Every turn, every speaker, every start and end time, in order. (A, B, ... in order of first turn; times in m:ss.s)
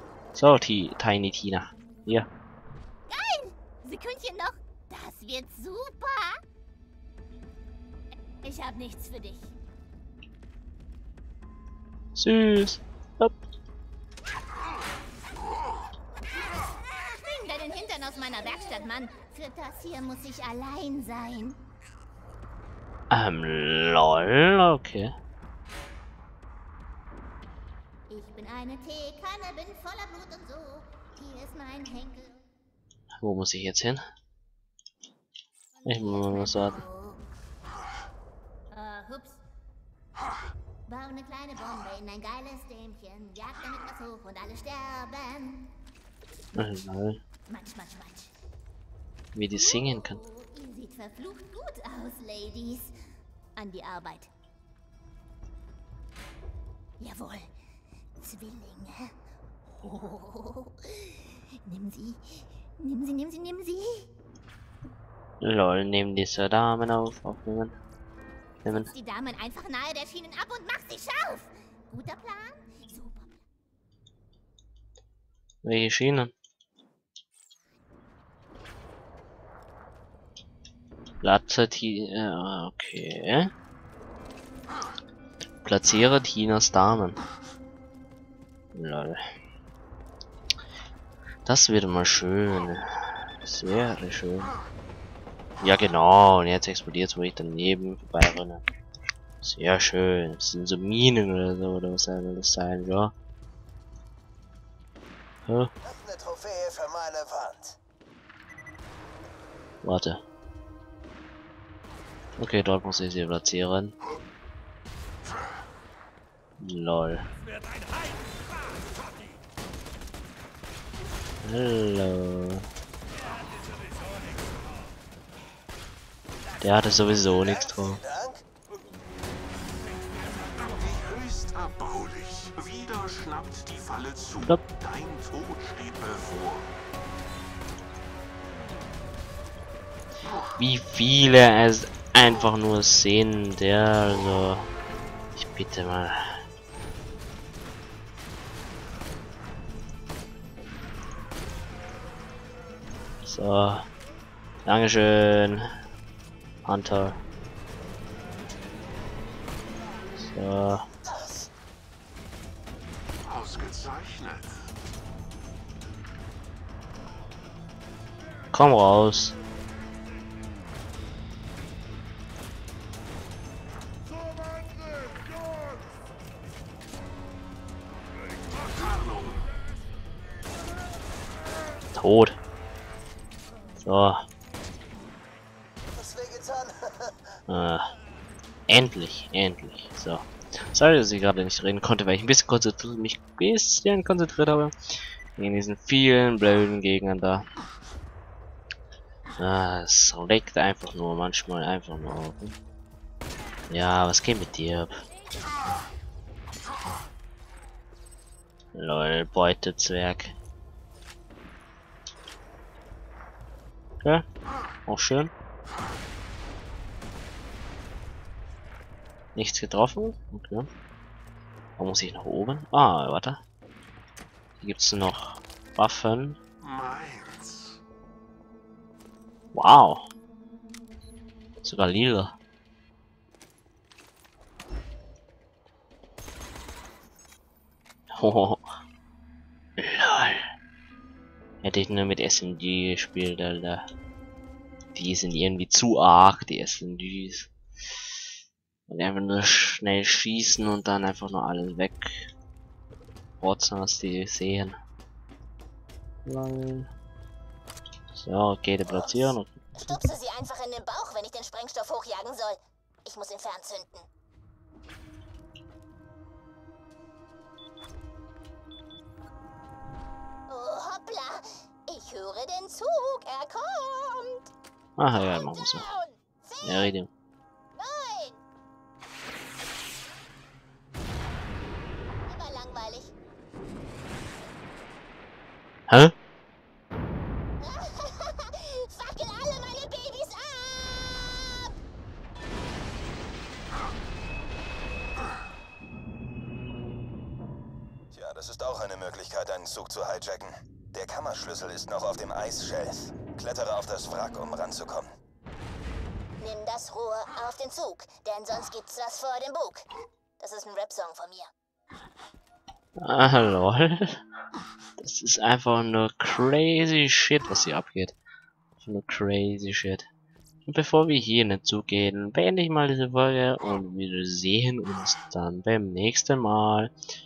0:00.3-0:02.3 A
0:03.1-0:06.4 B
0:08.4-0:09.5 B
0:12.1-0:13.3 A
0:16.7-0:21.6 B
0:23.1-0:25.1 A
0:28.1-0:32.4 B
0:33.2-0:34.0 A
0:35.8-0:37.2 B
0:35.8-0:36.8 A
0:38.7-0:39.4 B
0:40.9-0:45.7 B
0:46.5-0:47.2 A
0:47.5-0:48.3 B
0:49.3-0:50.2 A
0:49.5-0:52.9 B
0:53.6-0:54.3 B
0:57.0-0:57.5 B
0:58.2-0:59.1 B
0:59.8-1:04.1 B
1:05.4-1:07.7 A
1:08.6-1:08.9 A
1:08.6-1:13.3 B
1:15.6-1:16.3 A
1:21.2-1:23.5 A
1:25.6-1:27.2 A
1:28.7-1:29.2 A
1:31.4-1:34.5 A
1:35.6-1:38.6 A
1:39.4-1:43.1 A
1:45.4-1:45.7 A
1:45.8-1:47.8 C
1:49.8-1:50.2 A
1:52.4-1:53.9 A
1:56.6-1:57.3 A
2:01.4-2:02.6 A
2:06.6-2:08.0 A
2:07.9-2:08.4 C
2:10.6-2:16.7 D
2:20.6-2:24.7 A
2:25.4-2:26.4 A
2:33.2-2:33.8 A
2:34.6-2:35.6 A
2:36.6-2:37.2 A
2:40.2-2:40.8 A
2:43.3-2:44.5 D
2:48.5-2:49.4 A
2:58.8-2:59.2 D
3:01.9-3:02.4 A
3:03.8-3:04.2 A
3:05.9-3:06.9 C
3:07.5-3:07.9 A
3:08.7-3:14.7 A
3:15.4-3:17.4 A
3:19.4-3:22.6 A
3:23.7-3:24.9 A
3:28.7-3:30.3 A
3:34.8-3:35.3 A
3:39.4-3:40.7 A
3:41.8-3:43.4 A
3:44.6-3:46.4 A
3:46.6-3:47.7 D
3:49.5-3:50.1 A
3:51.6-3:52.4 A
3:58.2-3:58.6 A
3:59.8-4:00.4 A
4:01.6-4:03.8 A
4:04.9-4:07.5 A
4:08.9-4:12.3 A
4:13.4-4:14.8 A
4:16.2-4:16.9 A
4:18.1-4:20.1 A
4:18.8-4:24.1 B
4:30.5-4:34.5 B
4:35.0-4:35.8 A
4:35.1-4:36.9 B
4:36.6-4:37.1 A
4:37.7-4:38.4 B
4:42.3-4:43.1 B
4:45.9-4:46.1 A
4:47.6-4:51.7 B
4:58.1-5:05.1 C
5:06.4-5:09.9 B
5:10.4-5:11.5 B
5:13.0-5:14.2 A
5:15.0-5:18.2 A
5:18.8-5:20.0 A
5:20.6-5:26.9 A